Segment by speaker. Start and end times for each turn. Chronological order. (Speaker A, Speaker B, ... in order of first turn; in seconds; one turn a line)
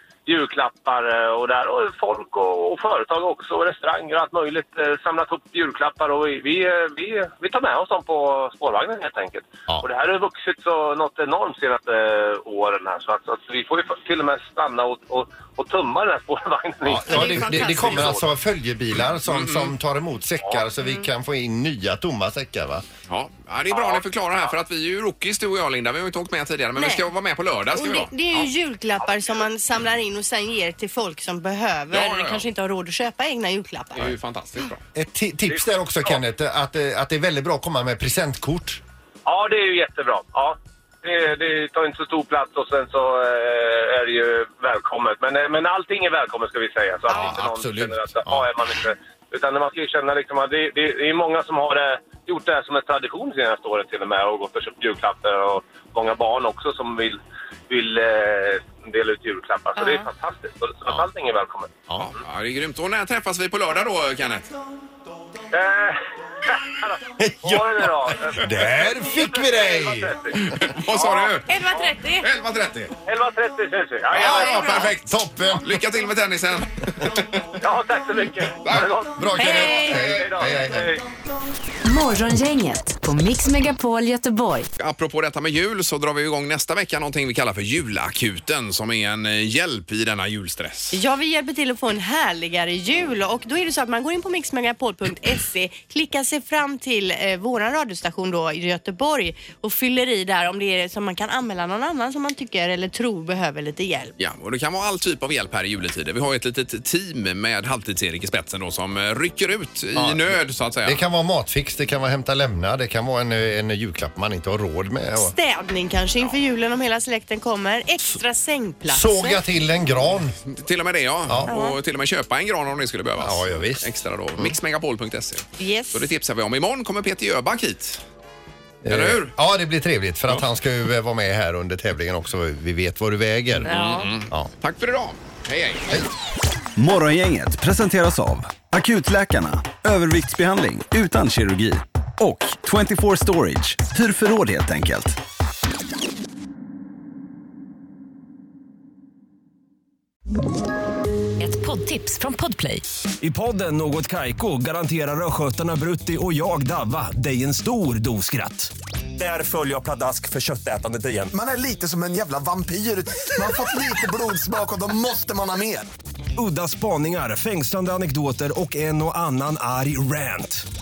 Speaker A: 0.3-18.2
Speaker B: 16.9-22.9
Speaker C: 17.1-18.2
Speaker D: 19.3-19.7
Speaker D: 23.1-28.5
Speaker A: 23.7-24.5
Speaker C: 26.8-27.1
Speaker C: 27.7-34.1
Speaker D: 31.9-32.5
Speaker D: 34.0-34.8
Speaker B: 35.0-38.8
Speaker A: 35.5-36.2
Speaker A: 39.3-61.8
Speaker B: 47.1-48.5
Speaker D: 62.0-64.5
Speaker A: 65.5-70.3
Speaker B: 67.2-70.7
Speaker D: 70.4-71.7
Speaker A: 70.9-71.9
Speaker C: 71.4-72.3
Speaker D: 72.2-72.9
Speaker A: 73.0-74.6
Speaker D: 74.2-77.5
Speaker C: 74.2-74.9
Speaker B: 74.9-75.8
Speaker A: 77.6-81.0
Speaker D: 78.6-79.0
Speaker B: 79.1-81.0
Speaker C: 79.4-80.1
Speaker E: 81.8-84.7
Speaker D: 84.8-91.0
Speaker C: 90.9-104.1
Speaker D: 104.2-111.0
Speaker B: 110.0-115.3
Speaker C: 115.2-119.4
Speaker B: 118.9-120.4
Speaker D: 120.5-128.0
Speaker C: 121.5-121.8
Speaker B: 123.2-124.5
Speaker C: 125.6-126.1
Speaker B: 128.8-133.7
Speaker D: 128.9-129.3
Speaker D: 133.7-135.9
Speaker C: 133.7-134.1
Speaker F: 136.8-145.2
Speaker E: 151.4-152.9
Speaker G: 153.2-161.3
Speaker H: 161.3-165.9
Speaker G: 166.4-170.7